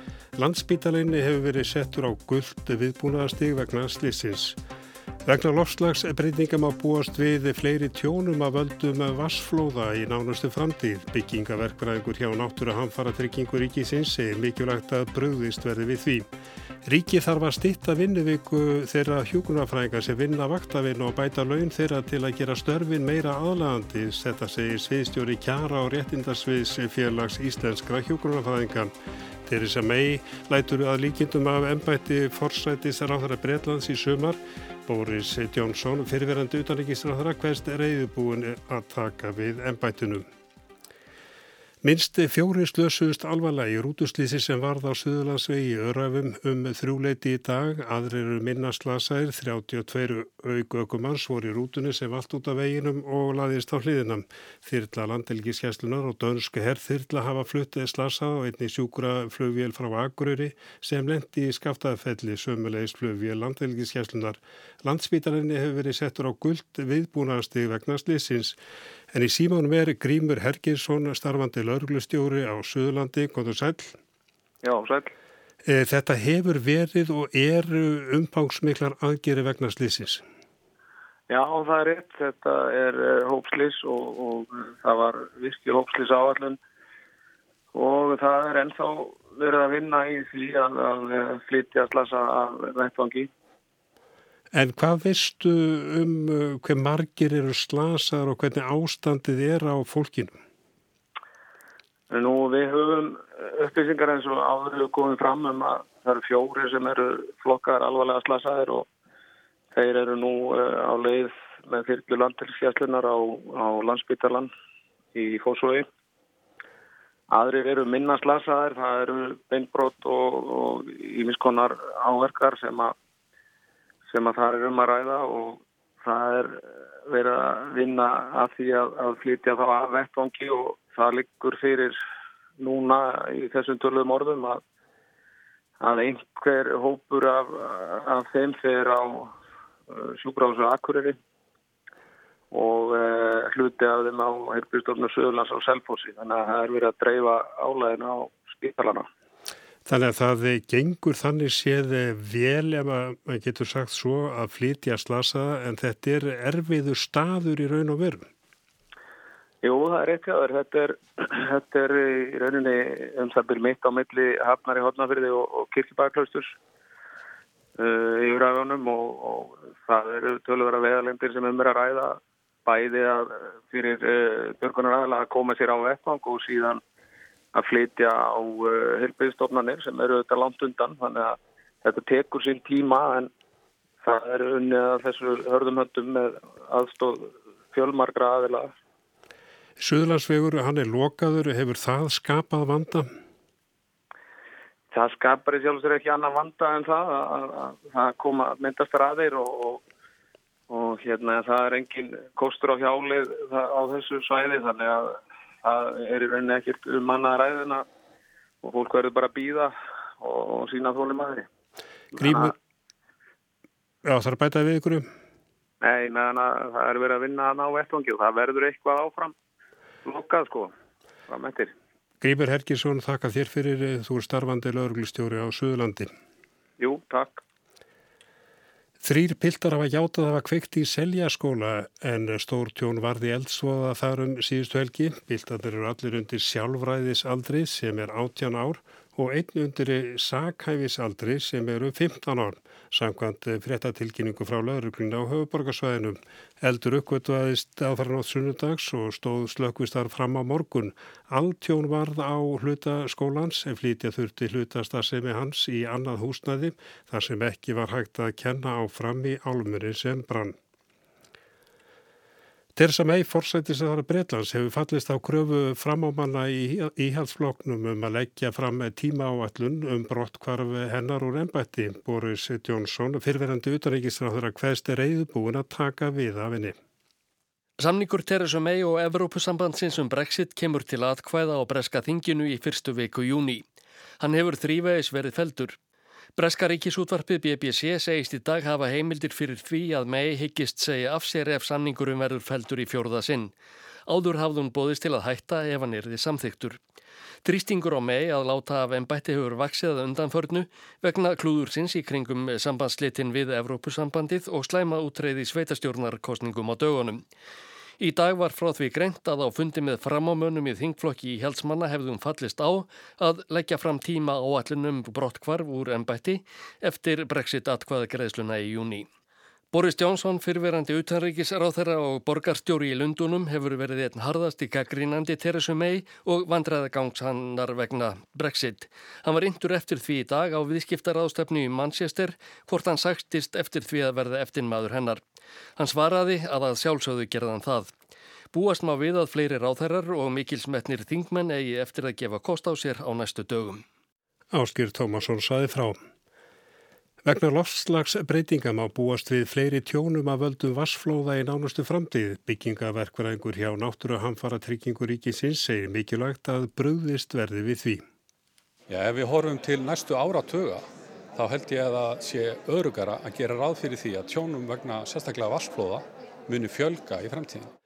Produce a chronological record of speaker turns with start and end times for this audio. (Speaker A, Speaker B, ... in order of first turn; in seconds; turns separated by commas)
Speaker A: 0.4-4.6, Speaker A: 5.3-16.3, Speaker A: 16.9-28.9, Speaker A: 29.5-40.2, Speaker A: 41.8-68.6, Speaker A: 69.1-74.0, Speaker B: 74.6-75.1, Speaker A: 75.6-80.2, Speaker B: 81.3-86.6, Speaker B: 87.7-93.3, Speaker A: 94.5-100.3, Speaker B: 102.1-108.9, Speaker B: 109.7-114.5, Speaker B: 115.1-115.9, Speaker B: 117.3-123.0, Speaker B: 124.1-132.0, Speaker B: 132.6-134.6, Speaker B: 135.8-139.3, Speaker B: 139.9-141.2, Speaker B: 142.5-149.1, Speaker A: 149.9-158.3, Speaker B: 159.6-166.6, Speaker B: 167.8-176.8, Speaker B: 177.5-183.3, Speaker B: 184.0-188.7, Speaker A: 189.8-193.1, Speaker B: 194.9-199.8, Speaker B: 200.7-207.9, Speaker B: 208.6-211.5, Speaker B: 212.2-212.5, Speaker A: 212.2-212.5, Speaker A: 214.0-215.1, Speaker B: 215.8-219.3, Speaker B: 220.1-220.7, Speaker B: 221.3-221.7, Speaker A: 222.2-226.1, Speaker B: 226.8-227.4, Speaker A: 229.0-260.6, Speaker A: 262.8-276.8, Speaker C: 277.8-283.6, Speaker C: 284.2-285.8, Speaker C: 286.4-293.5, Speaker C: 294.1-296.8, Speaker C: 297.4-307.2, Speaker C: 308.0-319.1, Speaker C: 319.7-335.2, Speaker C: 335.8-337.9, Speaker C: 338.5-343.8, Speaker A: 344.5-346.0, Speaker A: 347.2-358.0, Speaker D: 358.9-367.7